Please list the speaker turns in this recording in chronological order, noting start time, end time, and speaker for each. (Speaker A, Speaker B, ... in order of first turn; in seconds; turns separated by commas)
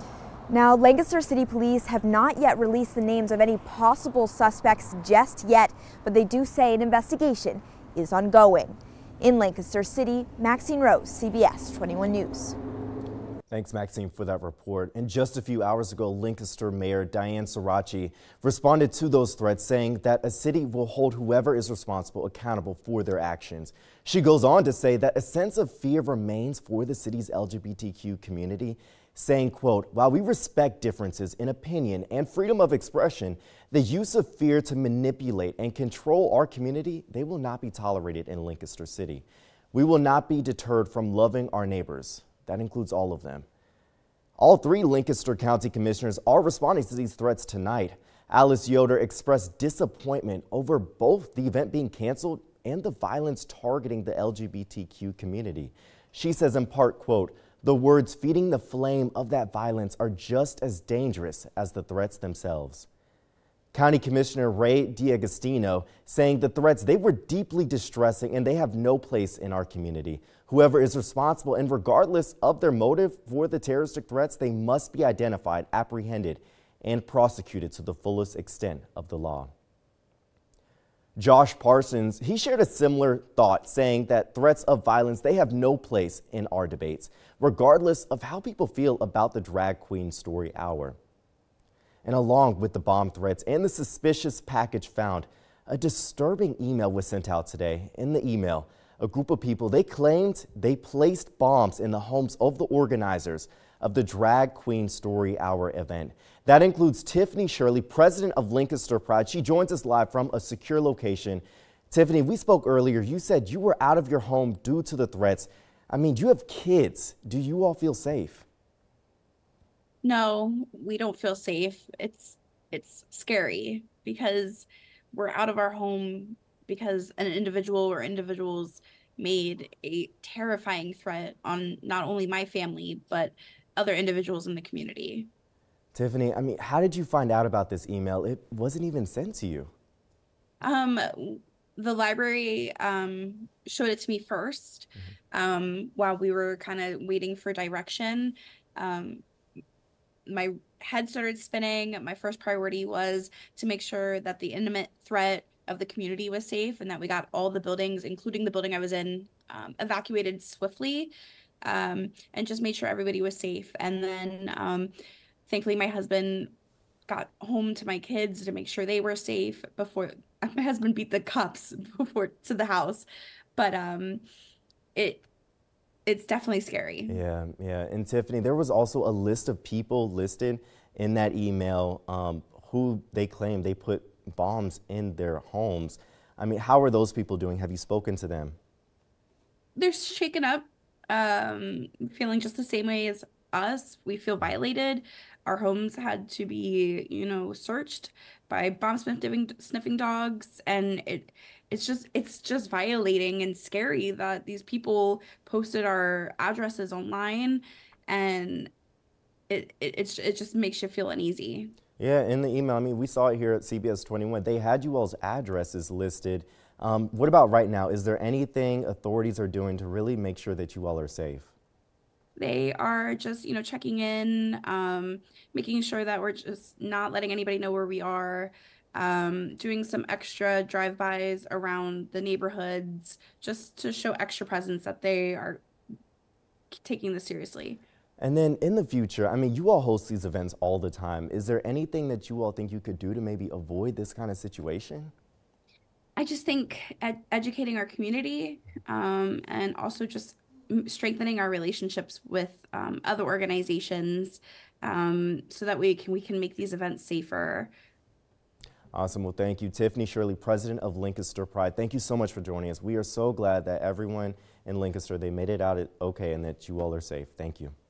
Speaker A: 0.5-12.6, Speaker B: 13.5-43.4, Speaker B: 44.4-62.9, Speaker B: 63.7-79.5, Speaker B: 81.2-91.0, Speaker B: 92.0-118.4, Speaker C: 120.0-135.3, Speaker B: 135.9-139.7, Speaker C: 140.6-149.2, Speaker C: 150.3-161.1, Speaker C: 161.6-164.9, Speaker C: 165.5-166.5, Speaker C: 167.1-173.0, Speaker C: 173.6-174.2, Speaker C: 174.9-175.2, Speaker C: 176.1-177.2, Speaker B: 177.1-188.6, Speaker C: 189.8-208.7, Speaker C: 209.5-211.7, Speaker B: 212.0-221.5, Speaker C: 222.3-235.6, Speaker C: 236.7-237.8, Speaker B: 238.2-245.1, Speaker C: 246.2-257.7, Speaker B: 258.9-267.7